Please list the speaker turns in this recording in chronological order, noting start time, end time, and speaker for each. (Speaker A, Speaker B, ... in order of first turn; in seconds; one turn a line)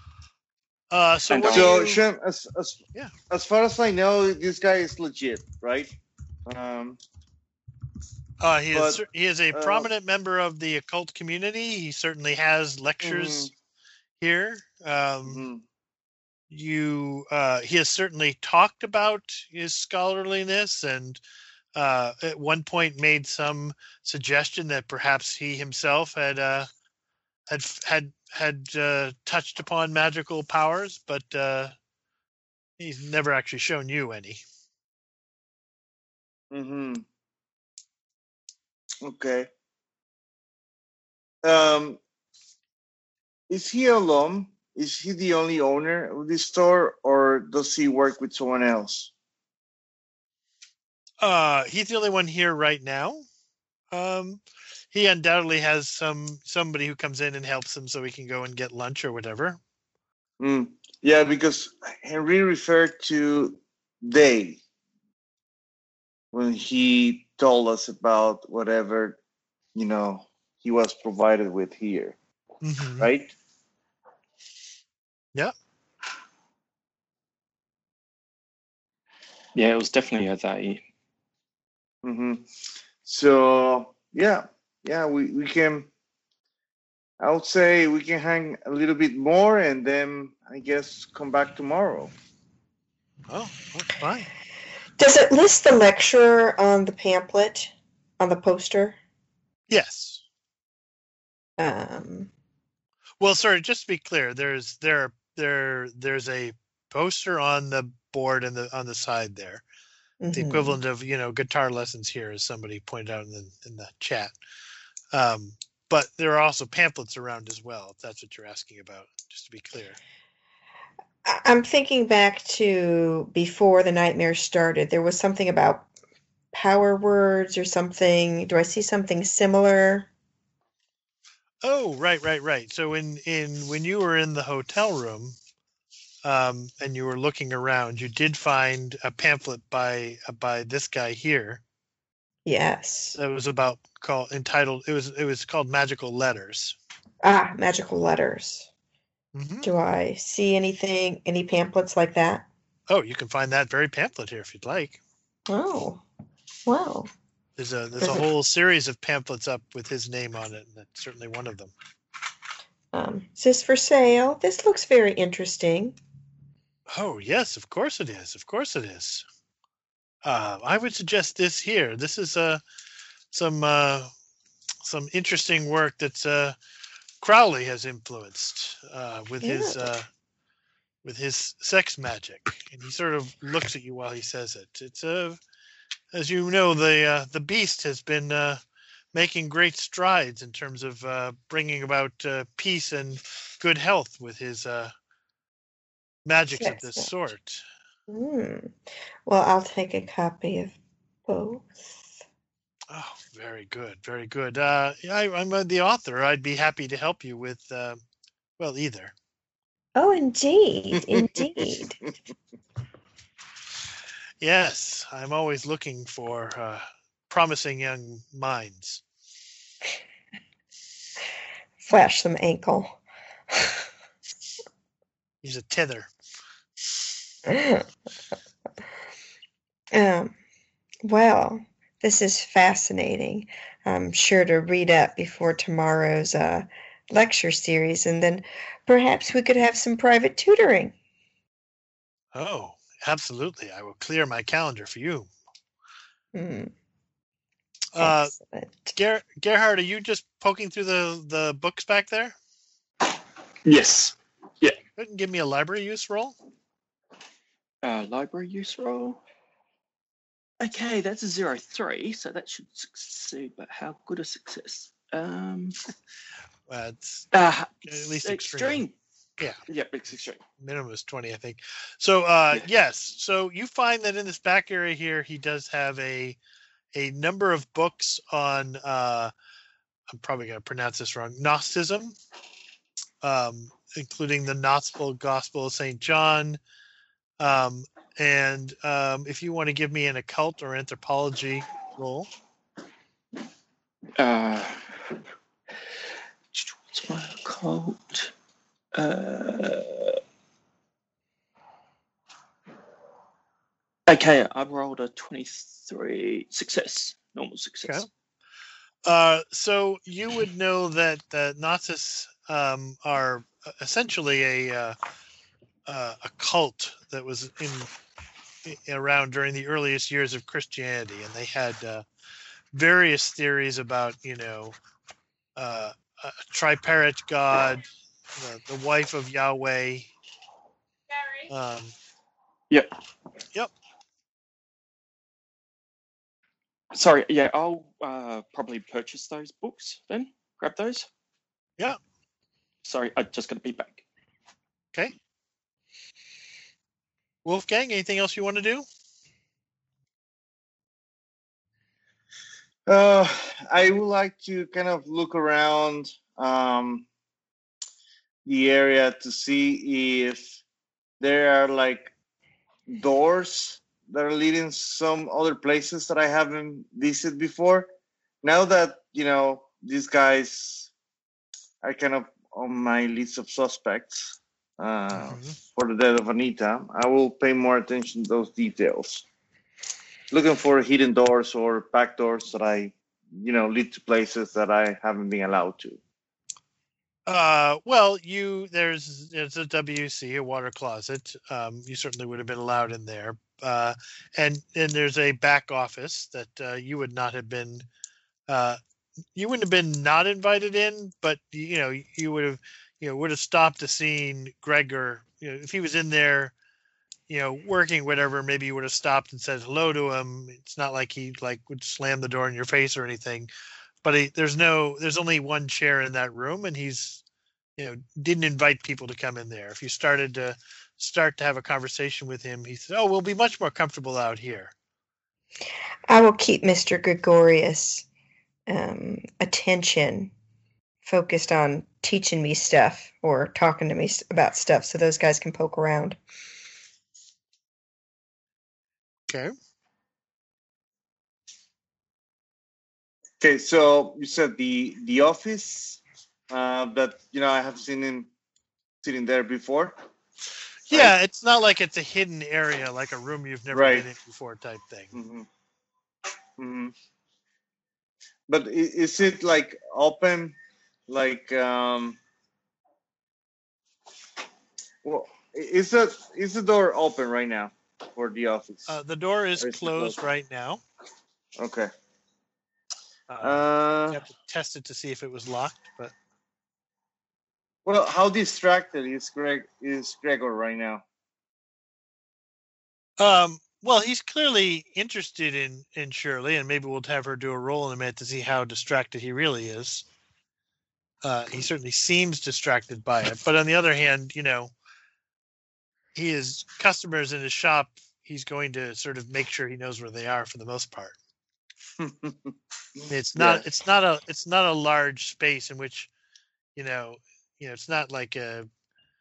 Speaker A: 0.9-2.0
Speaker B: 1.3-1.8
Speaker C: 1.5-5.9
Speaker C: 6.5-7.0
Speaker A: 8.4-13.5
Speaker C: 8.7-9.9
Speaker C: 13.0-13.5
Speaker A: 14.2-15.4
Speaker C: 15.2-15.6
Speaker A: 16.5-21.2
Speaker A: 21.8-26.7
Speaker A: 27.5-31.7
Speaker A: 32.8-34.4
Speaker C: 36.5-37.0
Speaker C: 39.0-39.5
Speaker C: 41.4-42.0
Speaker C: 43.5-49.1
Speaker A: 51.2-53.3
Speaker A: 53.9-54.4
Speaker A: 54.9-59.6
Speaker C: 60.4-64.6
Speaker C: 66.3-69.2
Speaker C: 69.8-72.2
Speaker A: 72.6-73.1
Speaker C: 73.0-73.3
Speaker B: 79.5-80.8
Speaker C: 82.0-82.5
Speaker C: 83.0-85.9
Speaker C: 87.2-92.1
Speaker A: 93.3-94.3
Speaker D: 95.0-99.0
Speaker A: 99.7-100.2
Speaker D: 101.6-102.3
Speaker A: 103.2-109.6
Speaker D: 110.2-110.8
Speaker A: 110.3-114.3
Speaker A: 115.1-120.0
Speaker D: 121.2-125.9
Speaker D: 126.5-130.1
Speaker A: 131.6-135.4
Speaker A: 136.2-141.6
Speaker D: 142.5-143.2
Speaker A: 143.2-146.8
Speaker D: 147.2-148.7
Speaker A: 149.3-149.7
Speaker D: 149.6-152.5
Speaker A: 152.9-155.0
Speaker D: 155.5-156.0
Speaker D: 156.7-157.1
Speaker A: 157.6-161.7
Speaker D: 158.0-158.3
Speaker D: 162.9-166.0
Speaker A: 166.9-169.2
Speaker A: 170.2-172.6
Speaker A: 173.3-174.1
Speaker A: 174.8-176.6
Speaker A: 177.2-180.1
Speaker D: 179.4-179.9
Speaker A: 181.0-185.4
Speaker A: 186.1-188.6
Speaker A: 189.1-194.9
Speaker A: 196.2-197.6
Speaker D: 196.6-197.1
Speaker D: 198.1-200.8
Speaker D: 201.3-202.0
Speaker A: 202.9-208.0
Speaker A: 208.6-209.1
Speaker D: 210.0-212.0
Speaker A: 214.4-219.0
Speaker D: 221.8-223.0
Speaker D: 223.5-223.8
Speaker A: 225.4-226.1
Speaker D: 227.5-227.9
Speaker D: 229.9-230.3
Speaker D: 231.0-240.9
Speaker A: 242.3-245.3
Speaker D: 246.3-246.7
Speaker A: 247.9-248.3
Speaker D: 248.0-248.9
Speaker A: 248.9-252.4
Speaker B: 253.7-254.8
Speaker A: 255.0-256.4
Speaker B: 257.8-259.2
Speaker B: 260.6-265.8
Speaker A: 266.7-267.3
Speaker B: 267.3-269.0
Speaker A: 267.9-268.9
Speaker B: 269.7-270.4
Speaker A: 270.6-276.4
Speaker A: 276.9-279.3
Speaker A: 280.1-282.2
Speaker A: 283.2-286.6
Speaker A: 287.4-292.3
Speaker B: 294.2-294.9
Speaker B: 296.5-298.3
Speaker B: 298.9-300.2
Speaker B: 304.1-308.1
Speaker A: 309.1-315.0
Speaker A: 315.9-317.9
Speaker A: 318.7-322.1
Speaker A: 322.7-324.8
Speaker A: 325.6-330.1
Speaker A: 331.5-331.9
Speaker B: 336.9-341.1
Speaker B: 342.8-344.0
Speaker A: 347.4-348.9
Speaker C: 352.9-357.1
Speaker C: 358.5-360.6
Speaker C: 361.2-362.1
Speaker C: 362.9-367.9
Speaker C: 368.4-370.9
Speaker C: 371.8-379.2
Speaker A: 375.1-375.6
Speaker C: 380.3-386.0
Speaker A: 387.3-397.9
Speaker A: 398.5-398.8
Speaker A: 399.4-406.5
Speaker A: 407.3-413.5
Speaker A: 414.0-417.2
Speaker A: 417.8-424.7
Speaker D: 426.1-428.1
Speaker D: 428.7-430.3
Speaker D: 431.1-436.2
Speaker C: 443.4-448.3
Speaker C: 449.0-450.0
Speaker A: 450.9-455.1
Speaker C: 453.7-454.1
Speaker C: 455.1-455.5
Speaker C: 456.6-456.9
Speaker C: 458.5-460.6
Speaker C: 461.1-462.2
Speaker C: 465.0-469.0
Speaker A: 468.9-470.8
Speaker C: 469.6-470.2
Speaker C: 471.6-471.9
Speaker A: 473.3-476.1
Speaker C: 473.4-474.2
Speaker C: 477.9-481.0
Speaker A: 483.2-490.1
Speaker A: 491.2-494.7
Speaker A: 496.1-501.2
Speaker C: 502.0-502.5
Speaker A: 503.1-506.1
Speaker C: 503.4-503.6
Speaker A: 506.8-508.7